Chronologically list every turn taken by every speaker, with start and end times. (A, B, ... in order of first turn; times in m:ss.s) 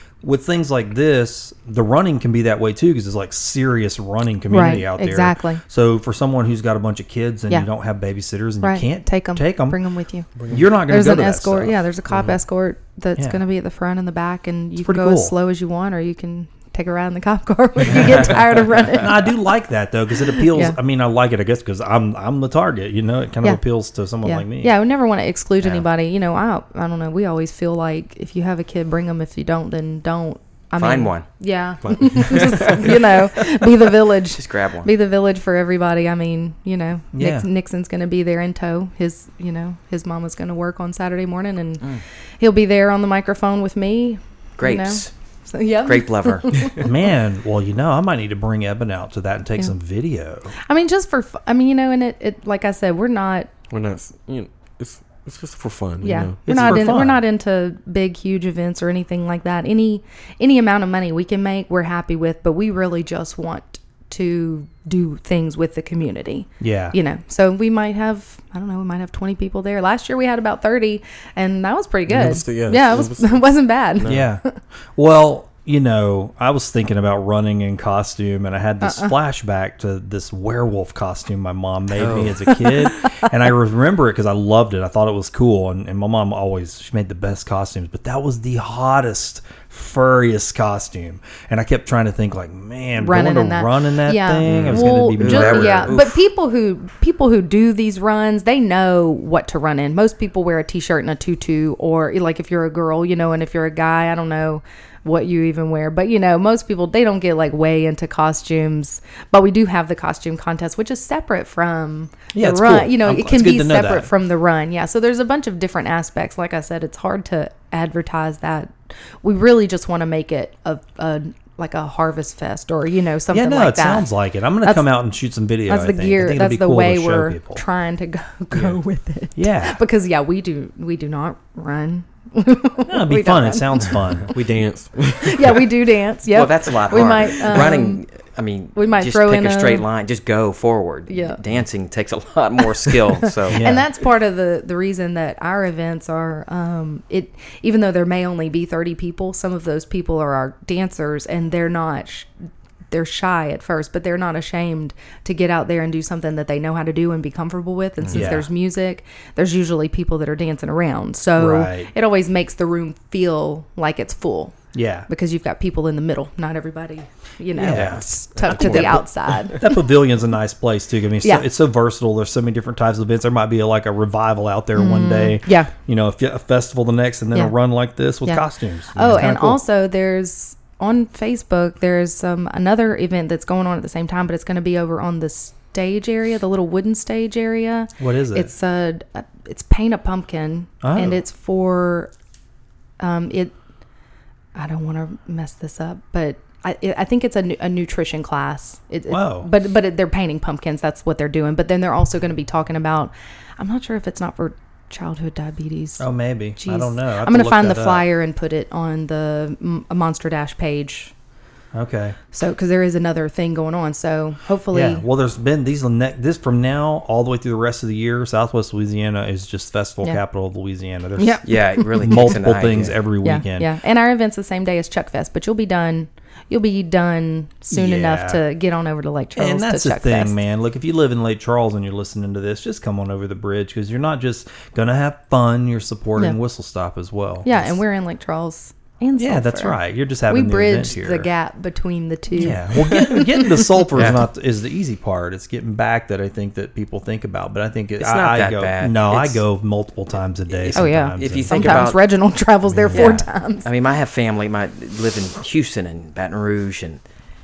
0:00.2-0:09.8 A
0:04.5-0:05.6 B
0:08.6-0:10.3 B
0:10.4-0:10.7 C
0:10.5-0:11.8 A
0:10.9-0:19.3 B
0:12.1-0:12.4 C
0:14.8-0:15.3 A
0:18.9-0:24.7 A
0:20.3-0:20.8 B
0:24.2-0:41.8 B
0:25.6-0:25.8 D
0:30.8-0:31.3 D
0:31.8-0:33.0 C
0:34.3-0:34.9 D
0:37.1-0:37.5 A
0:42.4-0:46.9 B
0:44.6-0:45.1 D
0:45.8-0:46.6 D
0:46.8-0:50.5 A
0:50.6-0:53.5 B
0:53.7-0:56.4 C
0:56.0-1:14.3 B
0:56.4-0:57.2 A
1:06.6-1:07.0 A
1:12.1-1:14.2 C
1:14.0-1:14.4 A
1:15.0-1:36.0 A
1:18.8-1:19.1 B
1:22.0-1:22.4 C
1:22.6-1:23.0 B
1:33.0-2:04.1 B
1:34.5-1:36.1 D
1:52.3-1:54.1 A
2:03.3-2:07.6 A
2:04.6-2:04.9 B
2:05.7-2:14.0 B
2:09.4-2:09.8 A
2:12.9-2:14.3 A
2:14.3-2:15.6 C
2:15.2-2:18.0 B
2:16.3-2:23.6 D
2:18.7-2:19.9 B
2:21.1-2:21.4 B
2:23.5-2:23.9 A
2:23.5-2:32.3 B
2:32.9-2:44.6 B
2:38.1-2:38.5 A
2:41.4-2:41.9 A
2:44.7-2:45.1 A
2:45.1-2:49.7 B
2:47.6-2:59.6 A
2:47.7-2:48.0 D
2:48.3-2:48.8 C
2:51.2-2:51.5 B
2:54.7-2:55.7 B
2:58.2-3:12.1 B
3:08.0-3:08.5 A
3:10.8-3:11.2 A
3:13.0-3:13.5 B
3:14.6-3:26.0 B
3:19.1-3:19.5 A
3:26.0-3:28.0 A
3:26.6-3:31.1 B
3:31.7-3:32.2 A
3:32.3-3:35.0 B
3:34.7-3:43.7 A
3:41.2-3:42.4 B
3:41.4-3:43.0 D
3:43.2-3:50.4 B
3:47.7-3:48.4 A
3:49.4-3:57.7 A
3:57.4-4:03.9 B
3:59.2-4:01.3 A
4:02.3-4:11.9 A
4:03.9-4:04.3 D
4:08.0-4:09.4 D
4:10.5-4:12.1 D
4:10.7-4:13.7 B
4:12.7-4:13.2 A
4:12.9-4:17.0 D